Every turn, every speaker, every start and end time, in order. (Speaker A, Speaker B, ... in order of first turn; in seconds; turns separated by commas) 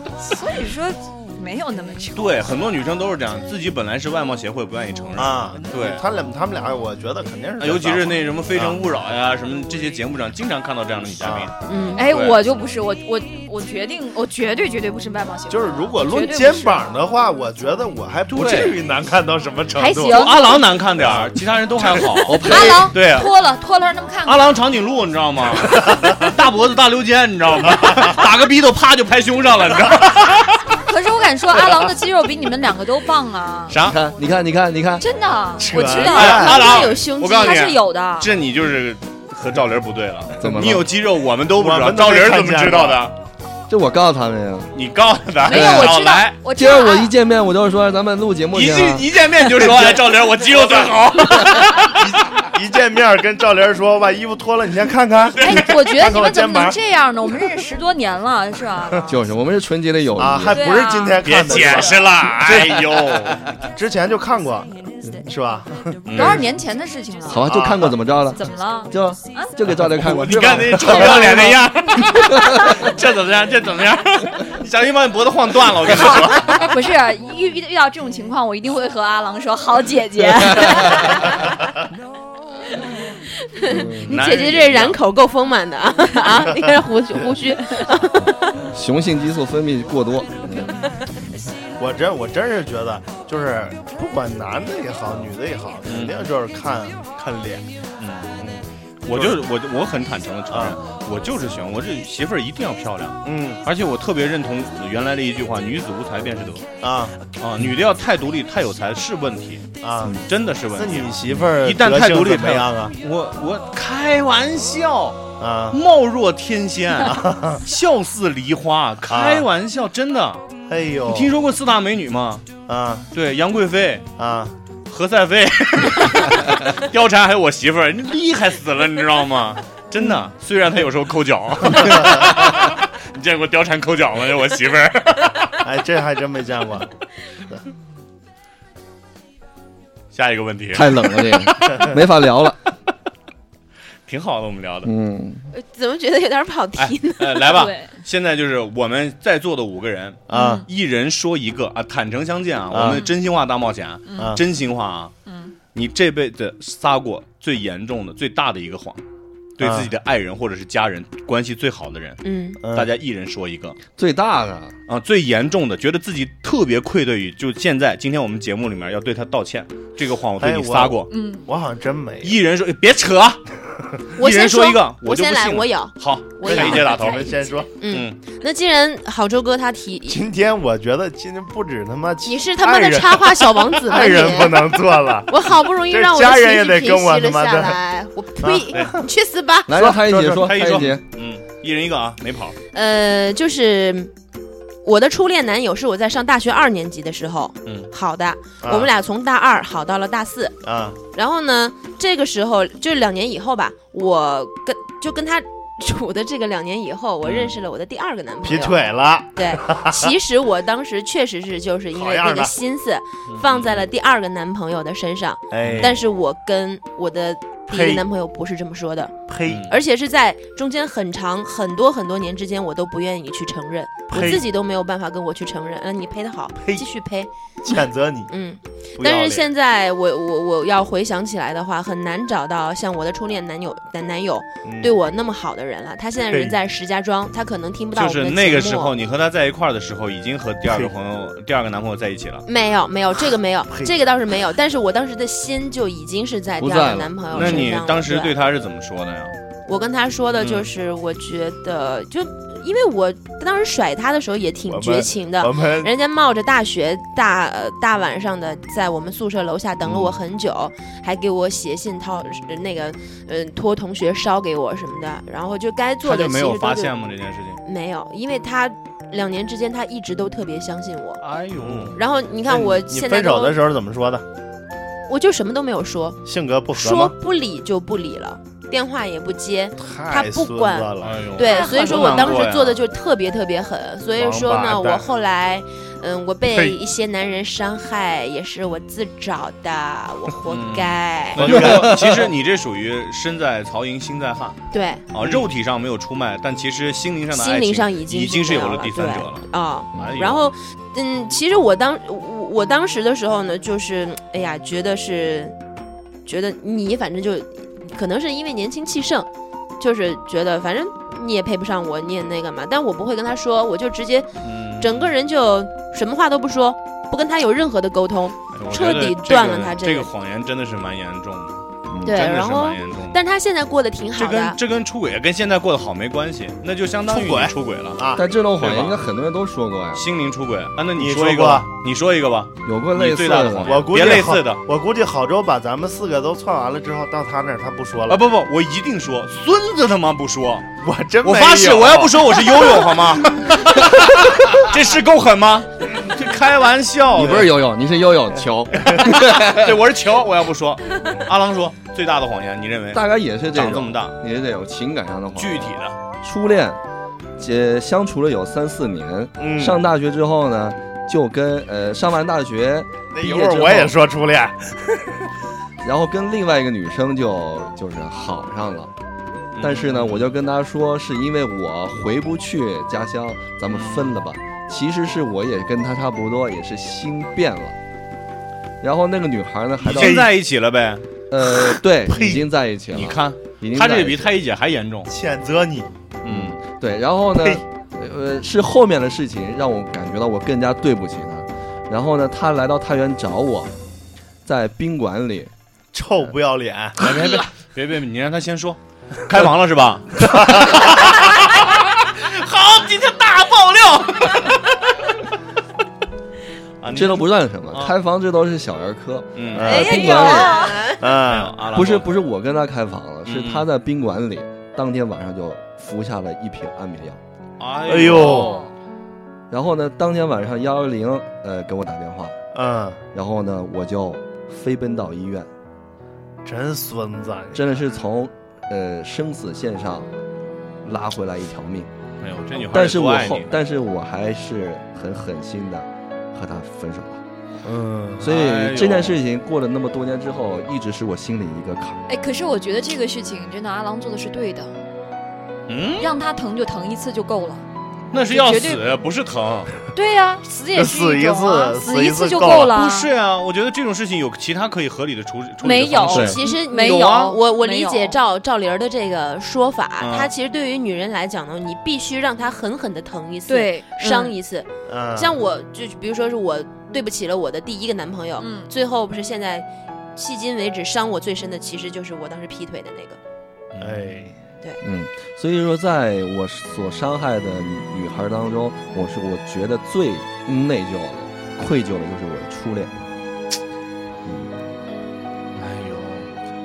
Speaker A: 0.2-2.6, Speaker B: 2.2-6.0, Speaker C: 5.2-8.8, Speaker B: 7.6-11.5, Speaker C: 11.2-11.5, Speaker D: 11.7-12.0, Speaker A: 11.9-16.9, Speaker B: 12.1-12.4, Speaker C: 15.5-20.3, Speaker B: 18.3-18.8, Speaker A: 19.8-20.6, Speaker B: 20.1-23.3, Speaker C: 21.0-21.3, Speaker E: 22.2-22.9, Speaker A: 22.4-24.6, Speaker B: 24.2-30.7, Speaker C: 25.8-26.2, Speaker C: 27.9-28.1, Speaker A: 30.8-33.8, Speaker B: 33.7-34.0, Speaker E: 33.8-35.1, Speaker A: 35.0-38.3, Speaker C: 35.6-36.9, Speaker B: 36.0-43.1, Speaker D: 36.1-37.7, Speaker E: 40.4-40.9, Speaker C: 41.5-43.0, Speaker E: 43.7-44.7, Speaker B: 44.7-46.4, Speaker A: 45.5-47.1, Speaker E: 45.5-49.1, Speaker B: 48.5-52.1, Speaker C: 49.6-51.0, Speaker C: 51.9-56.8, Speaker A: 55.4-59.3, Speaker B: 55.4-55.6, Speaker E: 59.1-60.6, Speaker C: 60.2-66.4, Speaker A: 60.5-61.9, Speaker B: 61.2-63.5, Speaker B: 66.1-66.5, Speaker A: 66.1-67.5, Speaker E: 67.3-71.7, Speaker C: 67.5-68.0, Speaker A: 68.3-69.5, Speaker B: 69.7-76.7, Speaker E: 72.2-72.8, Speaker A: 75.9-81.6, Speaker D: 83.5-88.7, Speaker E: 83.6-84.2, Speaker B: 84.1-85.0, Speaker E: 88.7-91.5, Speaker C: 91.8-97.7, Speaker B: 95.9-96.2, Speaker B: 98.0-98.4, Speaker C: 98.4-99.4, Speaker B: 99.1-106.7, Speaker C: 100.5-100.8, Speaker C: 103.2-103.6, Speaker C: 106.8-107.2, Speaker B: 107.4-109.7, Speaker C: 109.8-110.2, Speaker B: 110.3-120.5, Speaker C: 110.8-113.0, Speaker C: 115.4-115.8, Speaker C: 117.1-117.6, Speaker C: 119.1-119.5, Speaker C: 120.7-121.3, Speaker B: 121.1-122.5, Speaker C: 122.7-123.1, Speaker B: 123.1-124.1, Speaker C: 124.2-124.5, Speaker B: 124.9-135.4, Speaker C: 131.8-132.2, Speaker C: 135.6-136.9, Speaker B: 140.1-141.4, Speaker E: 140.7-142.6, Speaker B: 144.1-144.9, Speaker E: 144.8-145.5, Speaker D: 145.5-147.6, Speaker B: 146.8-155.1, Speaker A: 147.5-148.0, Speaker C: 150.3-150.6, Speaker D: 150.3-150.6, Speaker A: 150.3-150.7, Speaker C: 152.7-153.1, Speaker A: 154.1-154.4, Speaker A: 155.3-155.6, Speaker B: 155.8-159.0, Speaker B: 159.6-163.8, Speaker C: 159.6-159.9, Speaker D: 162.2-162.6, Speaker C: 162.6-162.9, Speaker E: 164.0-164.7, Speaker B: 164.9-171.1, Speaker C: 170.4-172.4, Speaker A: 171.1-171.5, Speaker B: 172.2-173.4, Speaker B: 174.1-177.4, Speaker D: 174.2-180.3, Speaker C: 176.5-177.7, Speaker B: 177.9-178.2, Speaker C: 180.1-187.8, Speaker D: 182.2-189.8, Speaker C: 188.4-189.1, Speaker E: 189.7-191.0, Speaker C: 189.8-190.5, Speaker B: 190.3-192.6, Speaker D: 192.7-194.1, Speaker D: 194.8-239.0, Speaker C: 198.6-198.9, Speaker C: 200.6-201.0, Speaker B: 207.2-207.5, Speaker C: 208.4-210.2, Speaker C: 211.9-212.6, Speaker B: 213.3-213.9, Speaker C: 215.5-216.0, Speaker B: 215.6-216.0, Speaker C: 217.7-218.1, Speaker C: 219.3-219.6, Speaker B: 219.5-219.8, Speaker C: 224.1-224.5, Speaker C: 226.6-226.8, Speaker C: 227.6-228.3, Speaker C: 229.0-229.5, Speaker C: 234.6-235.0, Speaker C: 236.3-236.6, Speaker B: 237.9-242.4, Speaker C: 240.7-240.9, Speaker D: 242.5-248.3, Speaker E: 246.6-247.8, Speaker B: 247.3-249.4, Speaker D: 249.7-266.9, Speaker B: 250.4-250.7, Speaker C: 254.7-255.9, Speaker C: 259.8-260.2, Speaker B: 266.0-267.6, Speaker D: 267.6-271.2, Speaker B: 271.2-272.0, Speaker C: 271.6-274.2, Speaker D: 271.9-273.6, Speaker D: 275.1-291.8, Speaker C: 276.3-277.1, Speaker C: 279.8-281.3, Speaker B: 281.0-282.8, Speaker A: 281.4-282.4, Speaker C: 284.1-285.1, Speaker C: 286.5-286.8, Speaker B: 290.5-294.6, Speaker C: 291.4-292.0, Speaker E: 291.6-292.2, Speaker D: 294.7-295.1, Speaker B: 295.1-299.5, Speaker C: 295.2-295.5, Speaker D: 297.3-305.6, Speaker E: 300.0-300.2, Speaker B: 300.0-300.5, Speaker D: 306.3-320.1, Speaker B: 314.4-315.1, Speaker B: 318.5-323.2, Speaker E: 321.9-322.2, Speaker D: 322.0-324.6, Speaker B: 324.1-328.0, Speaker C: 327.1-328.2, Speaker E: 328.2-330.1, Speaker B: 328.6-329.0, Speaker B: 329.9-334.6, Speaker C: 331.0-331.7, Speaker E: 332.6-333.8, Speaker C: 333.7-338.2, Speaker B: 338.1-340.7, Speaker C: 340.8-342.9, Speaker B: 341.2-347.5, Speaker E: 347.1-349.8, Speaker B: 348.8-354.2, Speaker E: 352.9-356.8, Speaker B: 355.4-356.0, Speaker E: 357.4-363.9, Speaker C: 359.4-359.8, Speaker C: 363.1-365.2, Speaker E: 365.8-368.9, Speaker B: 369.5-370.3, Speaker E: 369.6-377.8, Speaker B: 373.7-374.2, Speaker E: 378.8-380.3, Speaker B: 379.8-381.1, Speaker C: 379.9-380.3, Speaker E: 381.3-384.4, Speaker C: 382.1-382.4, Speaker B: 382.9-385.1, Speaker C: 385.1-385.9, Speaker B: 386.2-386.6, Speaker E: 386.3-393.7, Speaker E: 394.4-395.5, Speaker C: 395.9-397.3, Speaker B: 397.0-404.9, Speaker C: 400.3-400.8, Speaker B: 406.8-407.9, Speaker E: 406.9-410.6, Speaker B: 409.4-409.8, Speaker C: 409.6-409.9, Speaker A: 409.6-410.9, Speaker D: 409.6-411.1, Speaker C: 411.0-411.6, Speaker B: 411.2-412.1, Speaker E: 411.7-417.2, Speaker B: 413.3-413.7, Speaker B: 417.6-418.6, Speaker C: 417.9-418.6, Speaker A: 418.1-418.7, Speaker E: 419.5-422.4, Speaker C: 422.5-423.0, Speaker E: 423.1-425.5, Speaker C: 426.4-427.8, Speaker E: 427.5-430.1, Speaker E: 430.8-431.9, Speaker B: 432.2-433.5, Speaker E: 432.6-437.2, Speaker C: 437.6-438.3, Speaker E: 438.2-442.0, Speaker B: 438.3-439.2, Speaker A: 442.1-444.8, Speaker B: 445.7-446.1, Speaker A: 446.0-447.6, Speaker B: 448.1-449.8, Speaker A: 448.2-448.8, Speaker A: 449.9-453.1, Speaker C: 450.8-452.7, Speaker B: 452.7-457.4, Speaker A: 455.6-458.2, Speaker D: 456.1-473.2, Speaker B: 460.0-460.3, Speaker A: 463.5-464.4, Speaker C: 464.9-465.4, Speaker A: 468.4-468.7, Speaker B: 473.7-474.2, Speaker C: 473.8-474.4, Speaker E: 474.8-483.0, Speaker E: 484.2-484.6, Speaker B: 485.6-486.3